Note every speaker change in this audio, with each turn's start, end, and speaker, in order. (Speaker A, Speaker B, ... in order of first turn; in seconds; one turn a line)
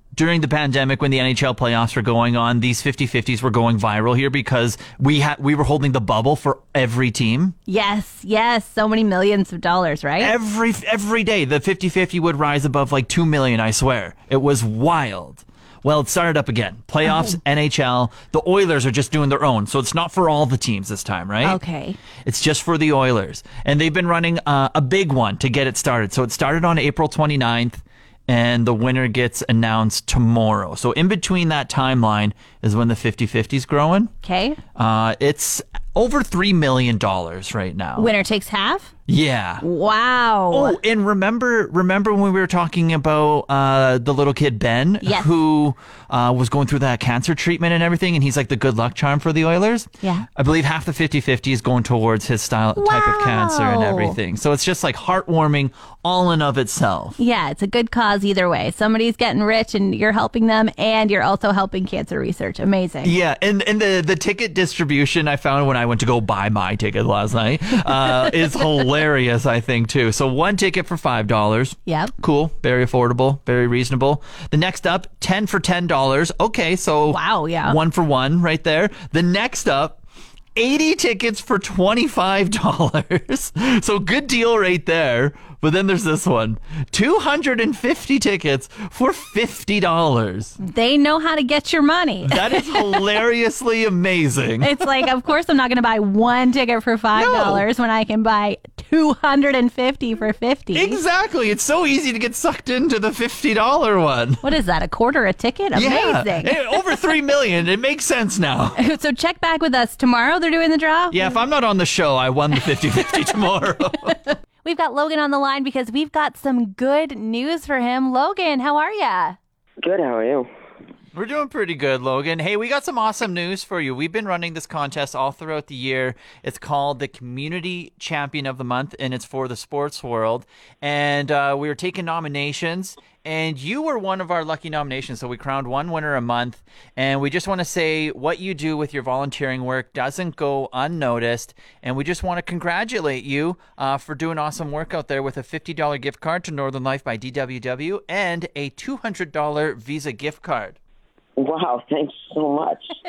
Speaker A: 0.1-7.5
Speaker B: 7.7-10.3
Speaker A: 10.2-21.6
Speaker B: 21.4-22.0
Speaker A: 22.2-34.1
Speaker B: 34.2-34.6
Speaker A: 34.8-38.1
Speaker B: 38.0-38.9
Speaker A: 39.1-39.6
Speaker B: 39.6-40.8
Speaker A: 40.5-57.2
Speaker B: 45.0-45.3
Speaker B: 50.0-50.3
Speaker B: 52.8-54.2
Speaker B: 57.2-63.1
Speaker A: 63.0-80.0
Speaker B: 71.9-72.1
Speaker B: 77.1-77.8
Speaker A: 80.5-90.6
Speaker B: 90.6-93.0
Speaker A: 92.2-94.9
Speaker B: 94.6-101.0
Speaker A: 97.1-97.7
Speaker A: 100.7-104.4
Speaker B: 104.4-106.8
Speaker A: 105.7-108.8
Speaker B: 108.8-111.4
Speaker A: 111.1-114.3
Speaker B: 114.6-119.4
Speaker C: 119.8-120.5
Speaker A: 121.1-150.8
Speaker C: 151.4-152.9